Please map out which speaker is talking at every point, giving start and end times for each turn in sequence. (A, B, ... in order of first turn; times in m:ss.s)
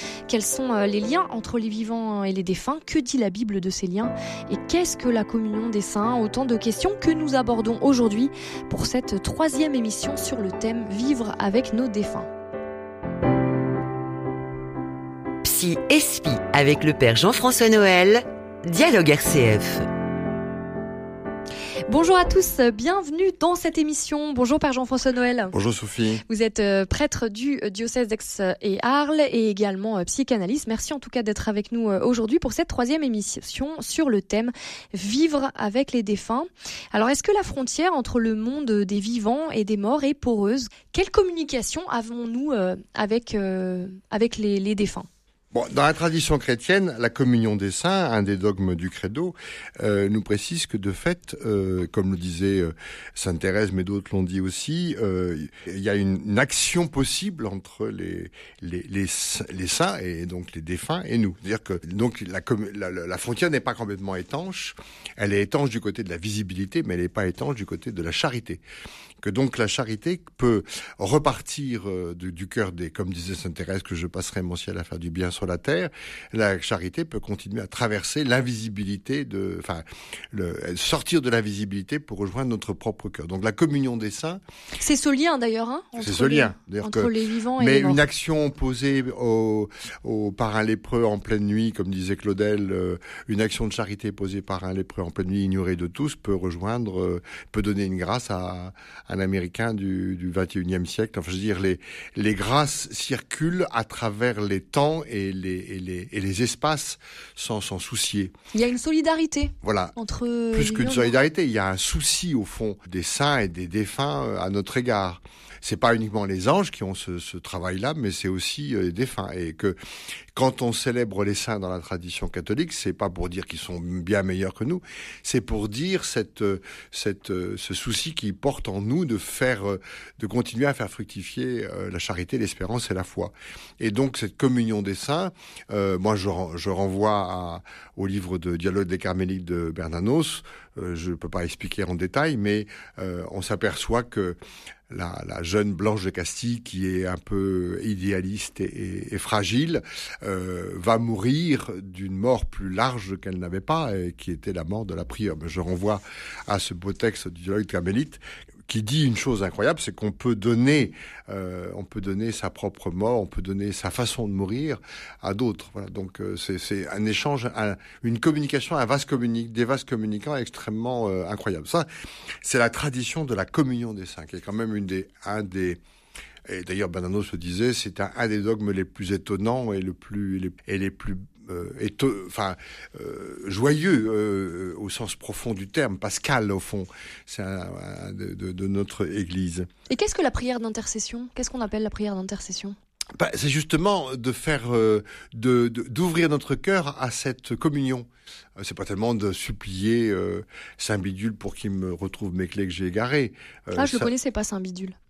0:00.3-0:12.3 A
0:15.4-0:19.8 B
0:21.9-0:25.5 A
0:25.5-0:26.2 C
0:26.2-0:45.1 A
0:45.5-1:08.6 C
1:09.2-1:24.4 C
1:24.8-1:28.0 A
1:26.0-1:48.3 C
1:48.5-1:51.1 A
1:49.6-1:49.9 C
1:50.5-1:59.8 C
2:00.3-2:24.4 C
2:24.9-2:51.9 C
2:52.4-2:55.8 C
2:56.5-3:09.7 C
3:09.9-3:12.7 A
3:13.2-3:18.1 C
3:18.6-3:24.1 C
3:23.7-3:25.0 A